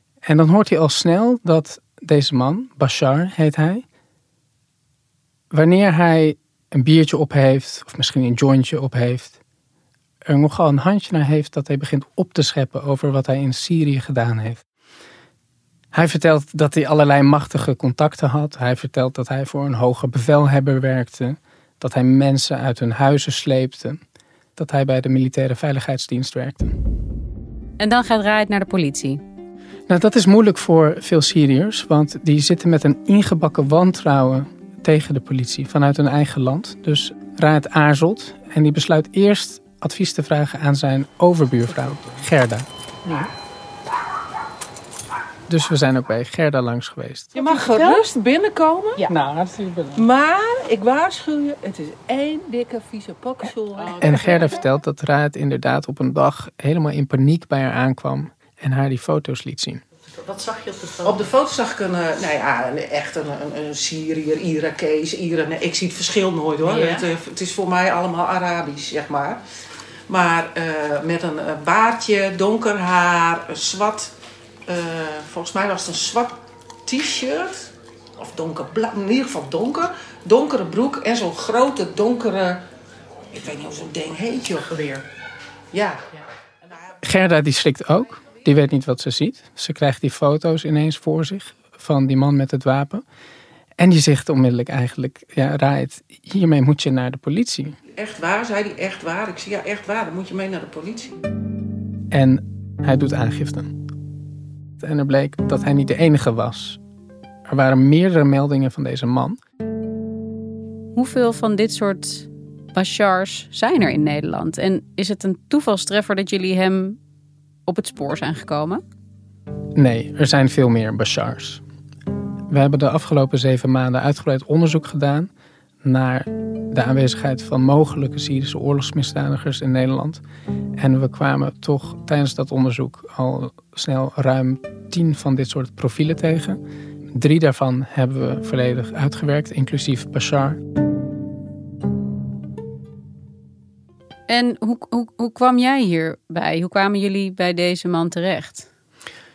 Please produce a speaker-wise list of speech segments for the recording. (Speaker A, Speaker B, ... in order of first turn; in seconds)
Speaker A: 0.2-3.8, 5.5-9.4, 10.3-14.6, 15.9-24.0, 24.6-26.7, 29.9-43.3, 45.5-47.4, 49.0-50.1, 54.0-59.8, 87.0-93.0, 93.8-97.8, 102.1-103.8, 104.8-106.8, 107.5-109.4, 119.8-121.6, 122.5-125.3, 125.8-130.2, 130.8-136.6, 137.2-140.6
Speaker B: 27.8-29.2, 110.9-117.0, 117.7-118.8, 144.3-148.7
Speaker C: 47.4-49.1, 50.0-54.2, 61.0-69.4, 70.1-74.1, 74.7-82.6, 83.3-85.0, 85.7-86.0, 98.0-101.1